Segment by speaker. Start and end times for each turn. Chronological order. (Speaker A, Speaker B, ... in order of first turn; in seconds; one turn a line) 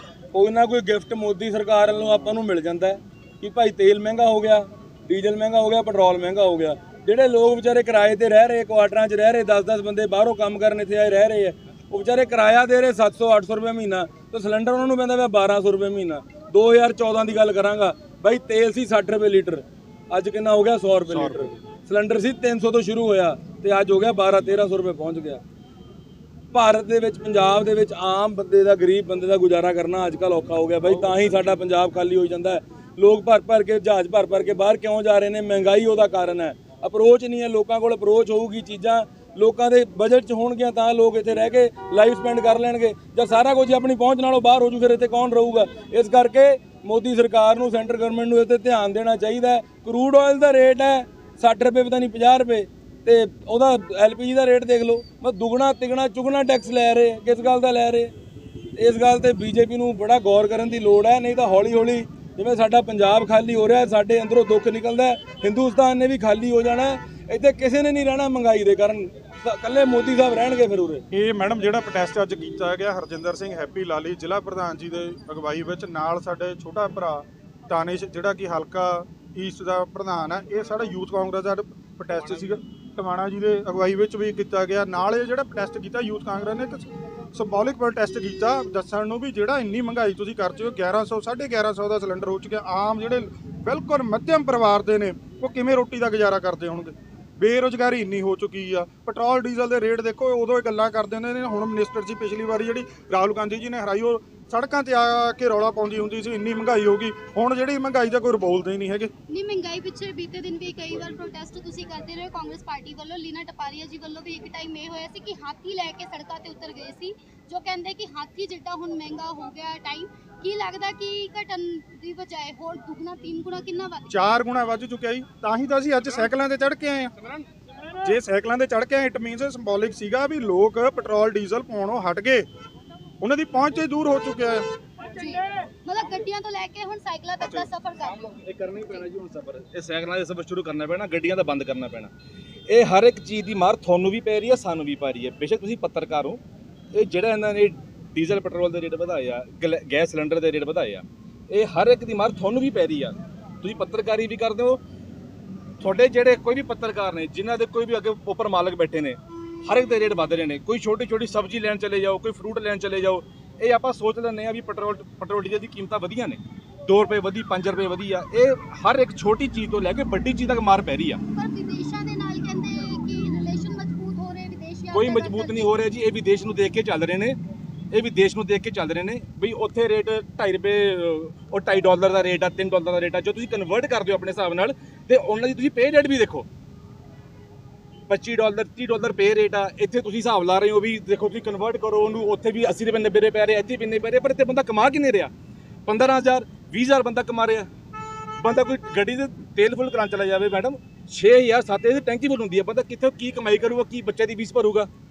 Speaker A: 0.3-25.4
Speaker B: 21.1-21.5
Speaker A: 26.5-58.1
Speaker A: 58.8-71.0
Speaker B: 71.1-109.1
Speaker C: 109.3-124.0
Speaker B: 124.1-127.1
Speaker B: 128.0-132.4
Speaker B: 133.2-134.7
Speaker C: 135.2-138.3
Speaker B: 137.4-137.7
Speaker D: 138.2-142.1
Speaker C: 138.8-139.1
Speaker D: 142.7-146.4
Speaker D: 146.9-154.8
Speaker D: 155.8-171.2
Speaker C: 171.3-175.8
Speaker D: 174.9-177.4
Speaker D: 177.9-186.5
Speaker D: 188.1-195.3
Speaker D: 195.9-197.7
Speaker D: 198.4-204.9